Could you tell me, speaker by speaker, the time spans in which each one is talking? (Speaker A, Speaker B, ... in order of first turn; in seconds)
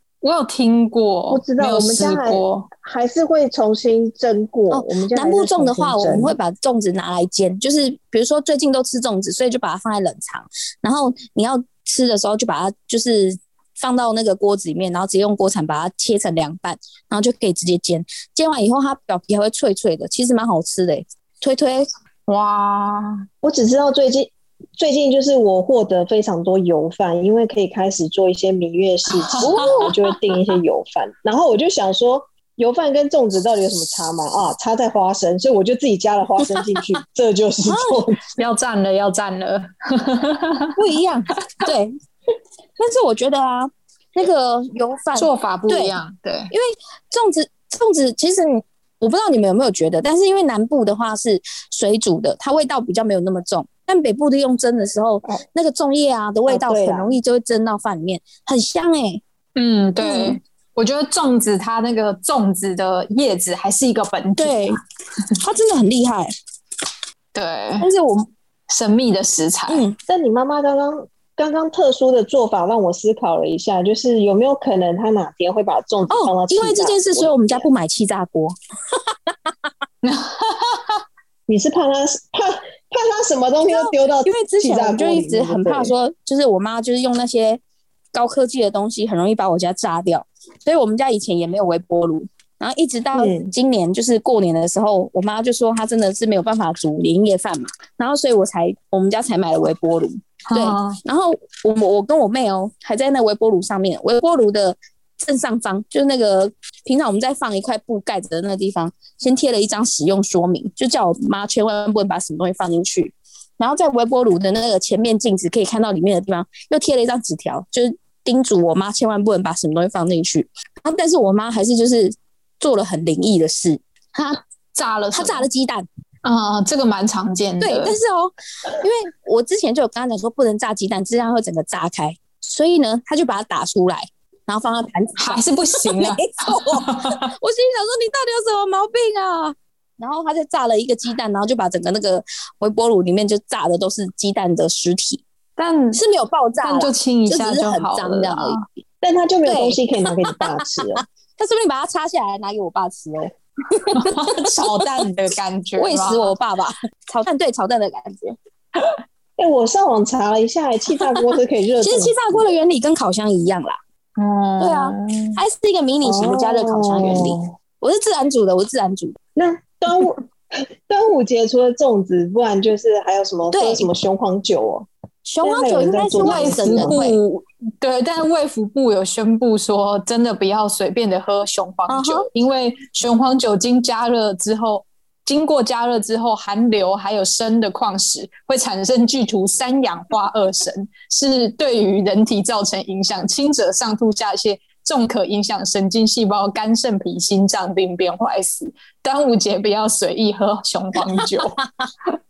Speaker A: 0.2-2.7, 22.3-23.2, 29.1-30.0, 38.4-40.7, 45.2-46.5, 59.6-64.8, 67.3-67.9, 68.7-69.9, 80.0-81.0, 100.5-101.0, 124.7-125.5, 126.2-128.0, 135.2-137.3, 145.6-146.0, 146.6-148.6, 153.9-156.3, 164.2-165.4, 176.2-201.6
Speaker B: 1.3-6.3, 23.4-38.2, 56.5-57.1, 70.1-77.7, 81.5-85.9, 93.1-93.5, 149.0-151.0, 159.4-162.4, 166.0-167.5, 169.4-174.9, 175.4-177.0
Speaker C: 4.7-21.9, 29.4-30.0, 37.7-38.0, 40.8-42.0, 42.8-46.0, 46.5-59.2, 60.0-60.4, 64.4-64.8, 65.4-66.3, 67.8-68.3, 69.7-70.0, 76.1-79.7, 83.7-87.6, 88.1-124.4, 125.1-125.9, 127.6-145.2, 145.9-148.8, 149.5-155.0, 155.8-158.4, 161.8-163.8, 164.6-169.2, 173.5-173.9, 175.2-177.2, 181.9-182.3, 201.0-201.9